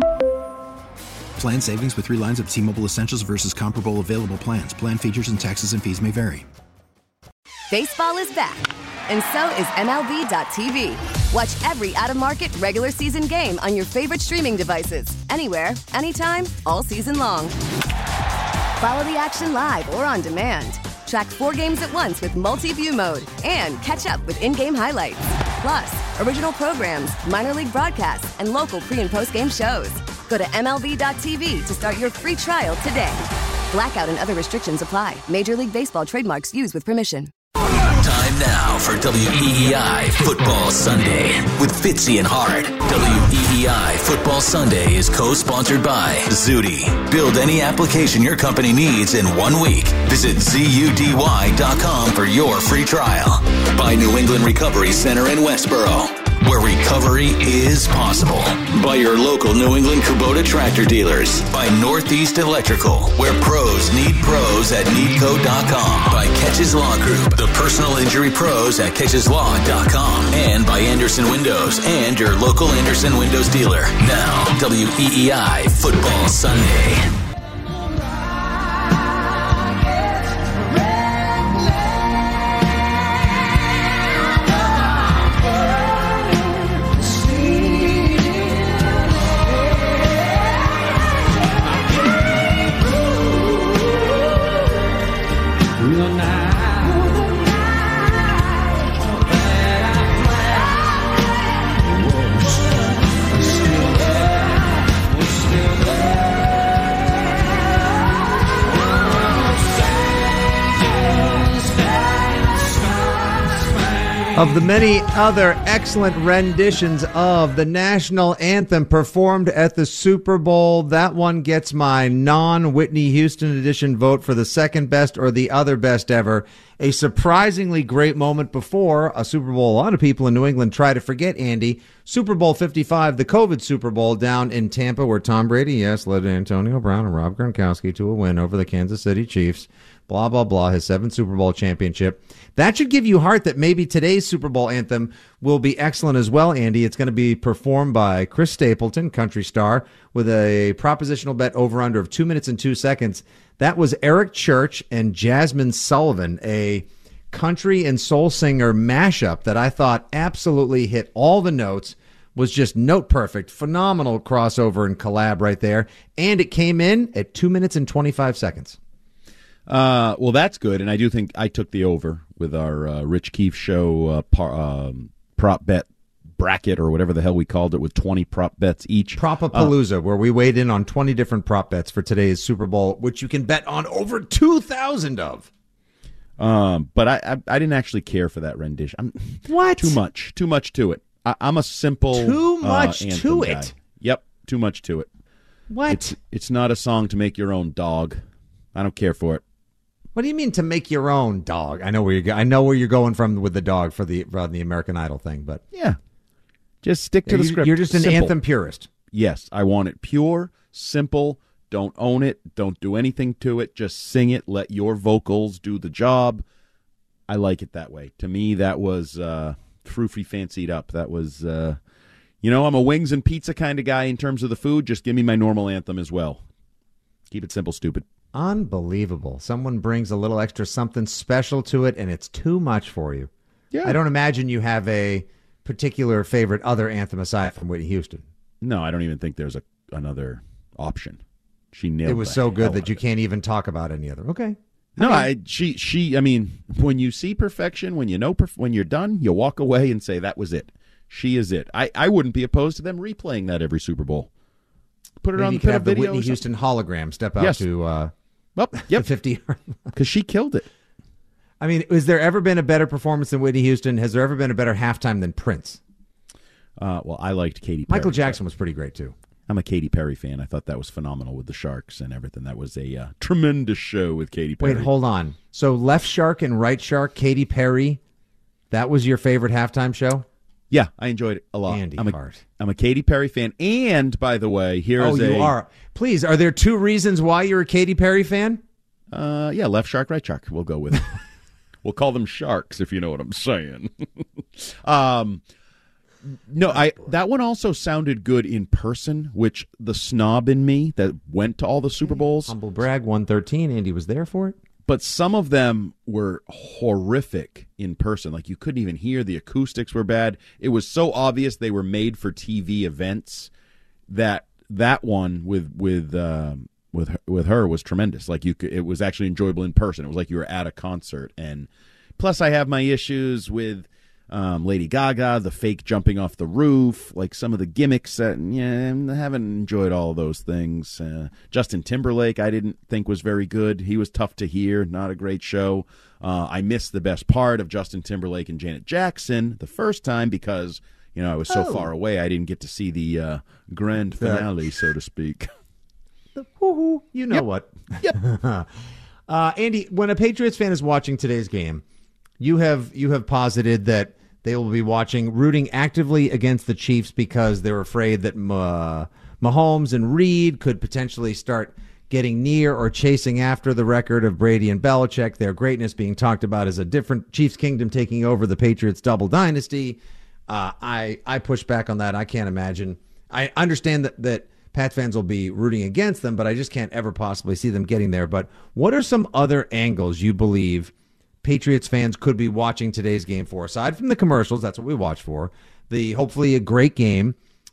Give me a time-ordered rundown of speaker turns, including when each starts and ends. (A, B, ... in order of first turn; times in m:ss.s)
0:01.4-0:06.4 A
0:07.7-0:17.5 B
0:18.8-0:37.3 B
0:37.8-1:17.1 C
1:54.3-2:48.8 D
2:49.7-2:59.7 E
2:59.2-3:05.5 D
3:06.4-3:15.1 E
3:09.5-3:10.0 D
3:12.1-3:13.7 D
3:15.7-3:16.2 D
3:15.9-3:18.2 E
3:18.8-3:19.4 E
3:20.2-3:25.6 D
3:25.7-3:26.0 E
3:26.8-3:28.3 E
3:27.3-3:28.9 D
3:29.1-3:36.4 E
3:37.3-3:41.8 E
3:42.4-3:46.4 E
3:47.3-3:48.0 E
3:48.3-3:53.3 D
3:53.7-3:54.0 E
3:53.8-3:58.2 D
3:58.6-4:01.2 E
4:01.7-4:03.0 E
4:02.0-4:05.3 D
4:05.0-4:14.3 E
4:15.2-4:16.4 E
4:15.4-4:18.1 D
4:17.4-4:17.6 E
4:18.6-4:19.1 E
4:18.9-4:19.9 D
4:19.9-4:20.7 E
4:21.6-4:25.8 D
4:26.8-4:28.4 E
4:27.9-4:29.2 D
4:29.5-4:34.9 E
4:34.6-4:38.0 D
4:38.7-4:40.3 D
4:40.7-4:45.5 E
4:41.7-4:42.4 D
4:45.0-4:48.6 D
4:49.1-4:51.2 E
4:51.8-4:55.4 E
4:56.5-5:02.5 E
4:56.7-4:57.1 D
5:02.0-5:04.6 D
5:04.9-5:13.5 E
5:14.1-5:45.5 E
5:41.5-5:41.9 D
5:44.2-5:44.5 D
5:46.4-5:48.7 D
5:49.3-5:51.8 D
5:52.4-6:20.9 D
6:21.4-6:27.4 D